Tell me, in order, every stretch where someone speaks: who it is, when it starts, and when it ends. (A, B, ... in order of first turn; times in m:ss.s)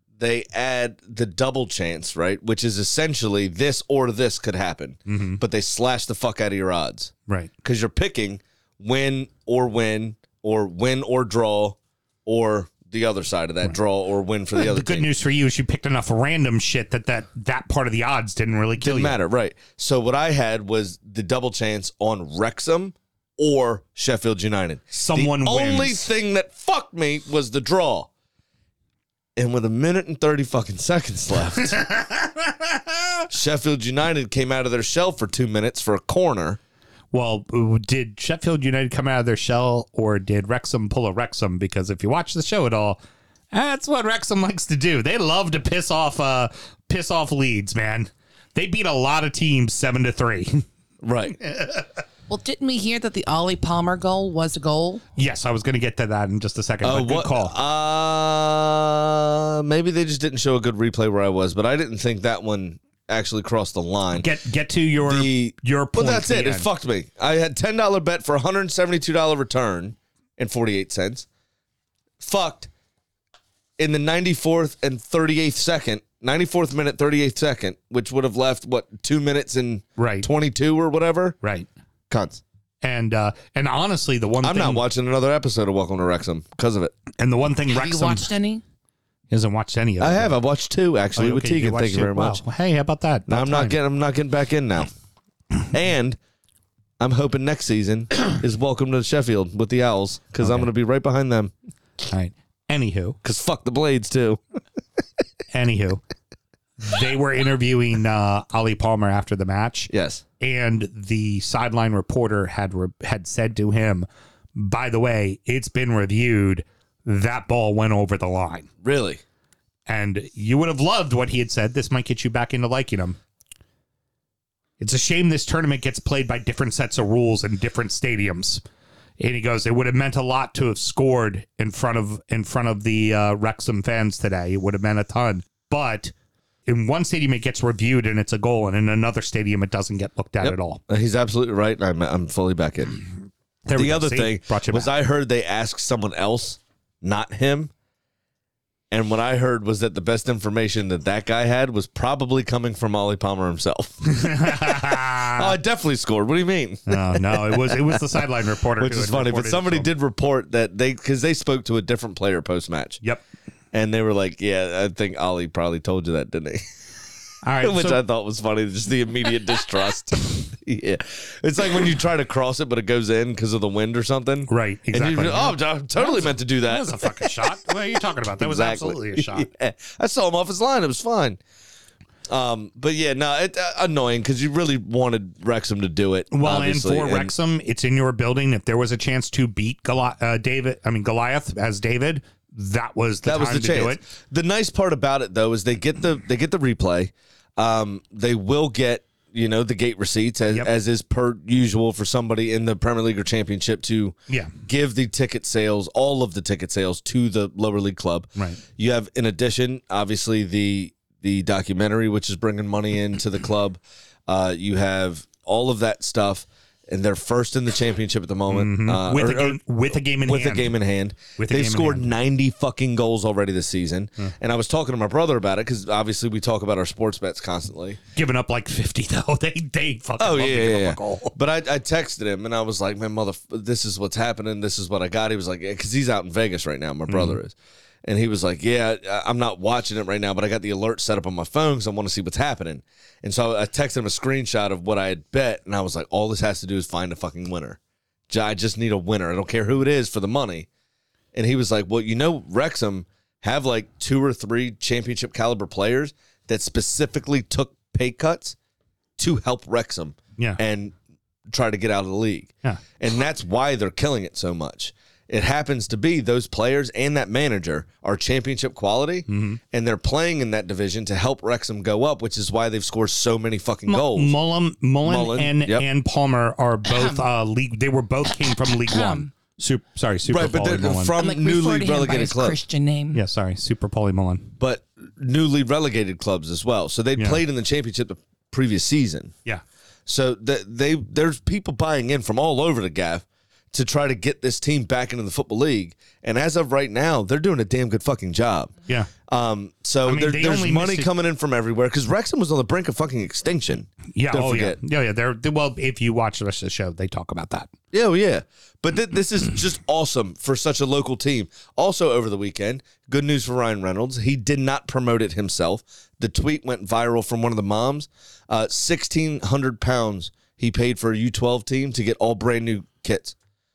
0:00.2-0:07.1 A
0:05.1-0:05.4 B
0:07.6-0:15.1 A
0:14.6-0:19.2 B
0:18.8-0:28.1 A
0:24.9-0:26.0 B
0:29.4-0:31.8 A
0:31.7-0:32.9 B
0:33.3-0:36.6 A
0:37.1-0:43.0 B
0:43.5-0:50.6 B
0:51.0-0:51.4 A
0:51.4-0:51.8 B
0:52.3-0:55.0 C
0:55.2-0:57.6 B
0:56.8-1:04.3 A
1:04.1-1:06.7 B
1:05.0-1:11.2 A
1:12.2-1:12.7 A
1:13.8-1:21.4 A
1:20.0-1:20.3 B
1:21.4-1:21.7 B
1:22.1-1:22.4 A
1:22.8-1:24.8 B
1:24.4-1:26.9 A
1:27.2-1:28.3 B
1:27.7-1:28.6 C
1:29.3-1:30.4 B
1:30.0-1:32.4 A
1:31.1-1:33.8 B
1:33.3-1:34.9 A
1:35.7-1:36.2 A
1:37.0-1:41.5 A
1:40.4-1:40.7 B
1:42.1-1:43.2 B
1:43.2-1:44.4 A
1:45.5-1:46.0 B
1:46.8-1:58.7 B
1:49.9-1:50.2 A
1:58.8-1:59.2 A
1:59.9-2:03.2 B
2:04.8-2:08.6 B
2:09.2-2:16.1 B
2:16.7-2:20.8 B
2:20.4-2:23.0 A
2:23.7-2:24.9 B
2:23.7-2:27.7 A
2:28.9-2:38.2 A
2:34.1-2:35.5 B
2:36.9-2:39.9 B
2:38.8-2:43.0 A
2:43.7-2:46.6 A
2:47.4-2:48.0 B
2:47.6-2:57.4 A
2:54.5-2:59.5 B
2:58.4-3:01.4 A
3:02.3-3:07.3 A
3:06.3-3:14.0 B
3:13.2-3:39.6 A
3:28.4-3:28.6 B
3:38.5-3:40.7 B
3:40.2-3:48.0 A
3:41.4-3:42.1 B
3:48.2-3:51.3 B
3:50.2-4:10.7 A
3:57.1-3:57.4 B
4:11.3-4:18.6 A
4:19.2-4:20.9 A
4:21.5-4:34.3 A
4:29.3-4:29.6 B
4:33.9-4:41.1 B
4:35.0-4:35.8 A
4:36.8-4:37.2 C
4:38.3-4:39.3 C
4:40.3-4:42.6 A
4:41.2-4:43.2 C
4:43.1-4:44.5 B
4:44.6-4:49.3 A
4:47.2-4:47.4 B
4:50.0-4:58.7 A
4:59.2-5:04.8 A
5:00.0-5:01.1 B
5:04.1-5:07.7 B
5:07.9-5:23.4 A